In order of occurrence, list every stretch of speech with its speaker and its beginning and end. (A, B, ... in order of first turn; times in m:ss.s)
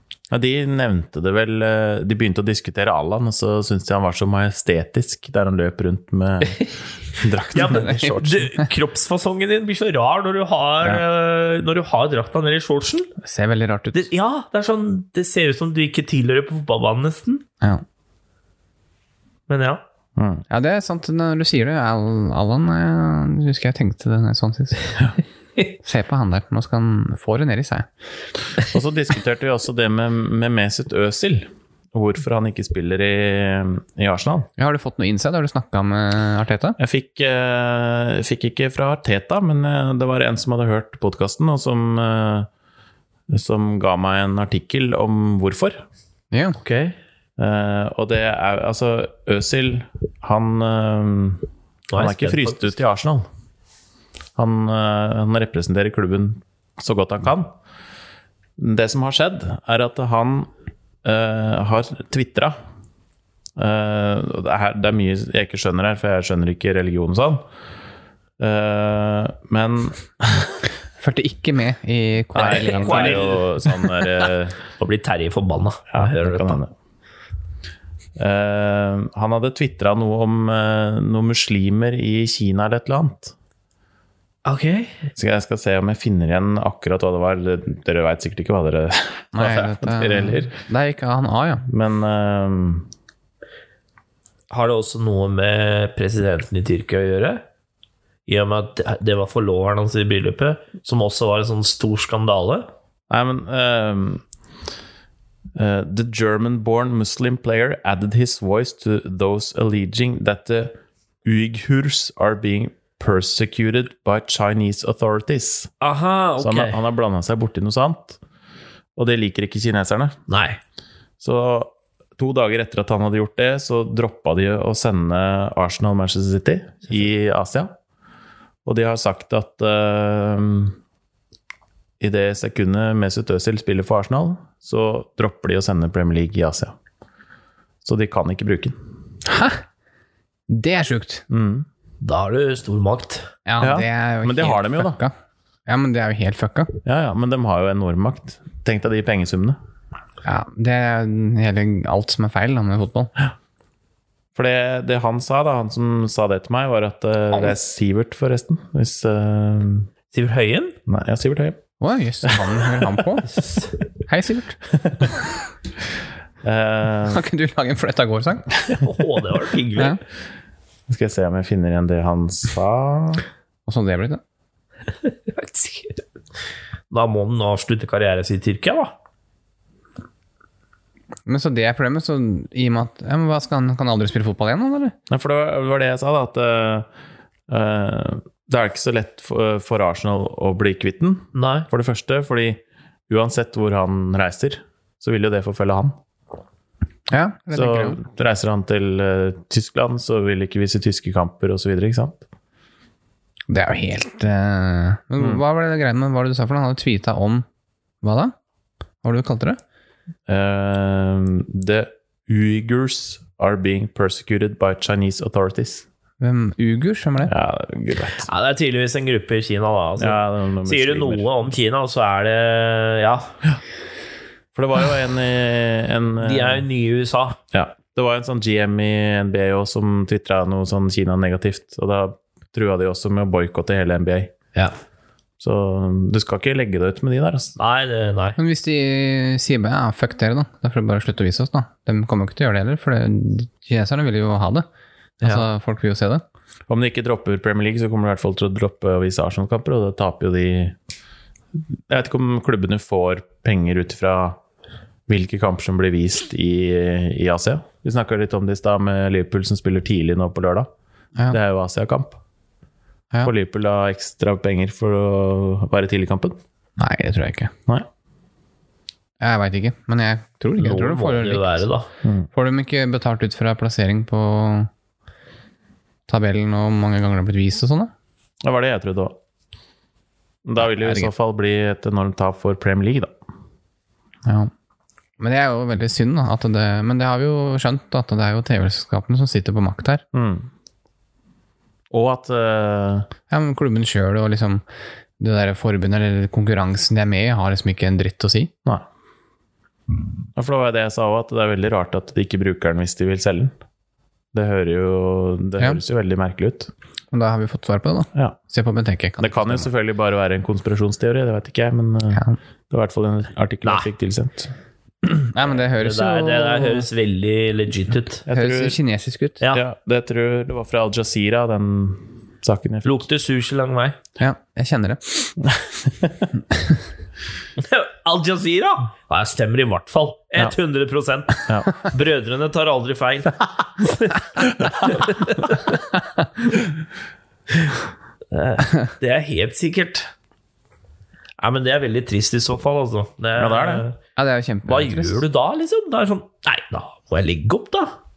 0:00.3-0:08.5 A
0:07.5-0:13.1 B
0:07.7-0:08.7 C
0:13.2-0:14.1 C
0:13.9-0:17.4 B
0:19.5-0:19.8 B
0:20.2-0:20.4 A
0:20.5-0:24.9 C
0:25.8-0:27.9 C
0:28.6-0:34.5 A
0:34.6-0:36.8 C
0:36.8-0:42.5 A
0:43.3-0:45.8 A
0:46.3-0:46.6 C
0:46.6-0:47.0 B
0:47.4-0:53.3 A
0:51.9-0:52.7 B
0:54.4-0:57.5 A
0:58.6-1:00.5 A
1:01.0-1:02.6 A
1:03.6-1:07.4 A
1:08.4-1:10.6 A
1:11.0-1:13.9 C
1:12.4-1:14.6 A
1:12.4-1:13.4 B
1:14.8-1:16.6 B
1:16.0-1:16.7 A
1:18.2-1:23.3 A
1:24.4-1:25.0 B
1:25.2-1:30.6 A
1:29.3-1:31.6 C
1:31.7-1:32.9 A
1:34.5-1:37.4 B
1:38.3-1:42.7 B
1:43.1-1:44.2 A
1:45.6-1:55.7 A
1:55.8-1:56.8 B
1:56.4-1:58.2 A
1:59.0-2:00.2 A
2:00.3-2:00.6 B
2:01.2-2:07.7 A
2:08.6-2:10.8 A
2:12.0-2:16.7 A
2:17.8-2:18.8 A
2:19.2-2:19.6 C
2:20.5-2:21.2 C
2:21.3-2:21.7 A
2:22.0-2:23.3 B
2:23.5-2:25.1 C
2:23.6-2:25.0 A
2:25.7-2:26.8 C
2:26.8-2:29.6 A
2:30.2-2:33.1 C
2:34.4-2:39.9 A
2:40.1-2:40.8 B
2:40.9-2:41.6 A
2:41.8-2:43.4 C
2:42.2-2:43.0 A
2:43.3-2:43.7 B
2:44.1-2:44.6 C
2:44.8-2:45.1 A
2:46.4-2:47.2 A
2:47.1-2:48.5 C
2:48.8-2:50.0 B
2:50.9-2:53.2 A
2:53.7-2:54.2 C
2:55.3-2:56.0 B
2:56.9-2:58.9 B
3:01.3-3:05.0 C
3:05.1-3:06.9 A
3:07.5-3:16.0 A
3:11.3-3:11.7 B
3:17.1-3:18.0 C
3:17.5-3:22.2 A
3:23.5-3:27.5 C
3:28.0-3:28.3 C
3:29.0-3:29.6 C
3:30.3-3:35.9 A
3:36.2-3:37.3 C
3:37.3-3:38.3 A
3:38.2-3:43.3 B
3:40.0-3:41.3 A
3:44.6-3:46.6 A
3:46.2-3:47.4 B
3:47.5-3:54.3 A
3:55.4-3:57.6 A
3:57.6-3:58.4 B
3:58.4-4:04.6 C
4:05.2-4:06.2 C
4:06.7-4:10.8 A
4:11.9-4:14.4 A
4:15.1-4:20.7 A
4:21.3-4:22.2 A
4:23.2-4:26.4 A
4:26.8-4:27.5 C
4:29.2-4:31.7 C
4:30.6-4:31.9 B
4:32.3-4:34.7 C
4:36.1-4:37.9 C
4:38.4-4:39.2 A
4:40.4-4:43.1 A
4:40.8-4:41.1 C
4:44.2-4:44.5 C
4:45.2-4:50.0 C
4:50.1-4:50.5 A
4:51.9-4:53.1 A
4:53.3-4:54.6 C
4:55.2-4:58.5 C
5:00.4-5:03.5 A
5:04.3-5:06.7 A
5:07.1-5:09.7 C
5:09.2-5:14.5 A
5:15.0-5:16.9 C
5:15.5-5:18.2 B
5:18.3-5:18.8 A
5:18.3-5:19.4 C
5:19.5-5:23.1 A
5:22.8-5:24.0 B
5:24.2-5:25.3 C
5:25.4-5:26.2 A
5:26.5-5:26.8 C
5:27.6-5:35.9 B
5:31.5-5:31.7 A
5:38.3-5:40.1 B
5:41.4-5:44.0 B
5:43.4-5:43.8 A
5:44.2-5:45.2 C
5:44.7-5:47.9 B